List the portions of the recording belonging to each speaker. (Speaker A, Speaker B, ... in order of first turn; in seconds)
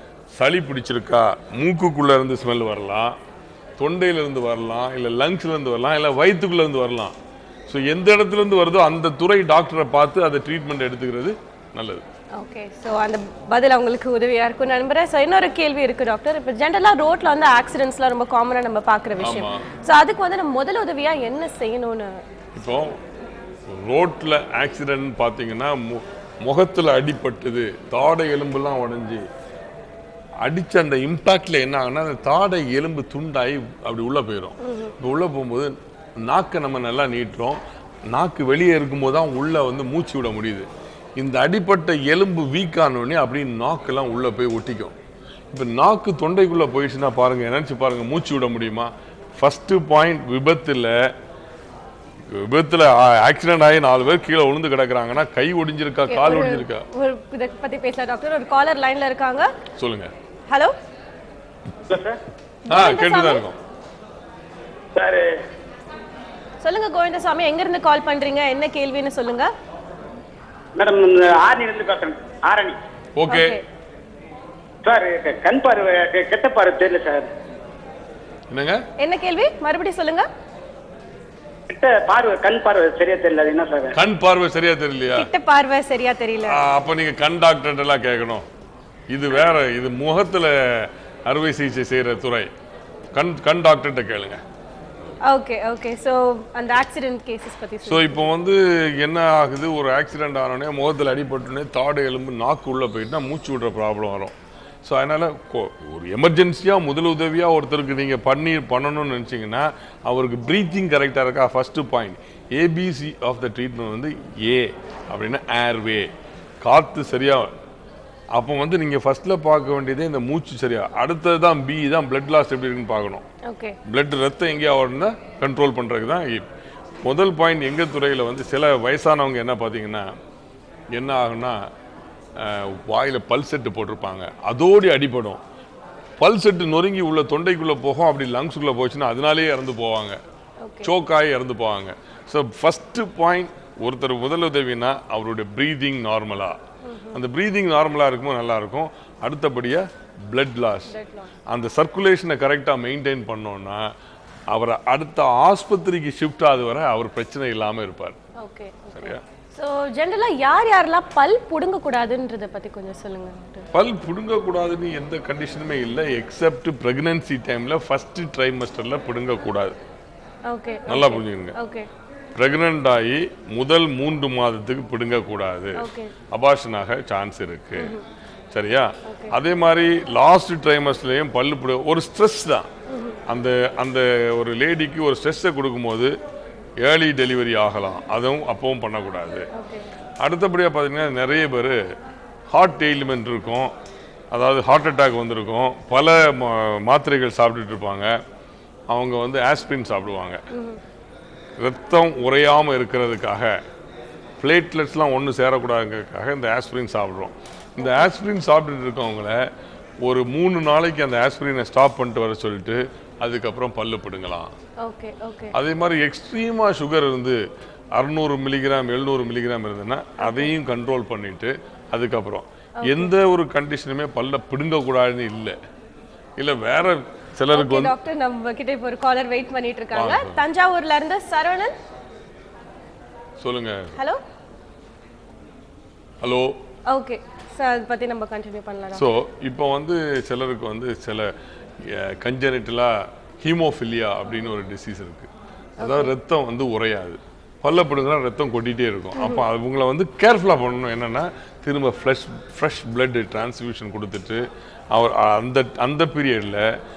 Speaker A: 0.3-3.1, 3.8-7.1, 7.7-12.0, 19.2-19.6, 22.5-22.9, 23.7-29.2, 30.4-37.6, 38.1-44.9, 45.5-50.9, 52.3-56.8, 59.8-60.1, 62.7-63.6, 73.2-73.5, 78.5-78.8, 83.9-85.3, 86.5-88.4, 89.1-92.5, 93.1-94.4, 97.8-104.3, 104.8-116.1, 116.6-117.5, 118.3-123.2, 123.8-126.4, 127.0-130.1, 130.9-131.6, 132.4-135.4, 136.2-140.2, 140.8-146.6, 147.1-150.9, 151.5-153.8, 154.5-158.2, 158.9-159.2, 163.7-169.8, 170.9-171.6, 172.3-175.8, 176.3-177.9, 178.5-182.7, 183.3-186.1, 186.8-189.5, 190.2-191.8, 192.5-193.7, 194.3-198.1, 198.9-200.4, 201.6-203.5, 204.4-209.4, 210.0-214.5, 215.5-217.4, 217.9-225.6, 226.4-227.9, 229.9-230.4, 233.4-234.0, 236.2-236.5, 238.9-241.3, 241.8-245.3, 245.8-256.6
Speaker B: 12.3-22.2, 34.6-34.9, 56.1-59.5, 60.5-60.7, 62.6-63.4, 66.6-69.5, 73.3-73.6, 79.0-80.3, 85.1-86.6, 95.2-98.2, 123.4-123.8, 140.6-140.9, 146.8-147.2, 150.9-151.3, 158.4-163.7, 170.4-171.9, 175.8-176.1, 177.8-178.0, 179.1-179.4, 182.9-183.2, 189.5-189.9, 200.5-200.8, 214.8-215.5, 220.2-220.5, 222.8-223.1, 227.5-231.7, 236.9-239.1, 245.8-246.1, 249.2-249.4
Speaker C: 61.9-62.2, 64.9-65.3, 70.7-72.8, 74.8-77.3, 81.7-84.0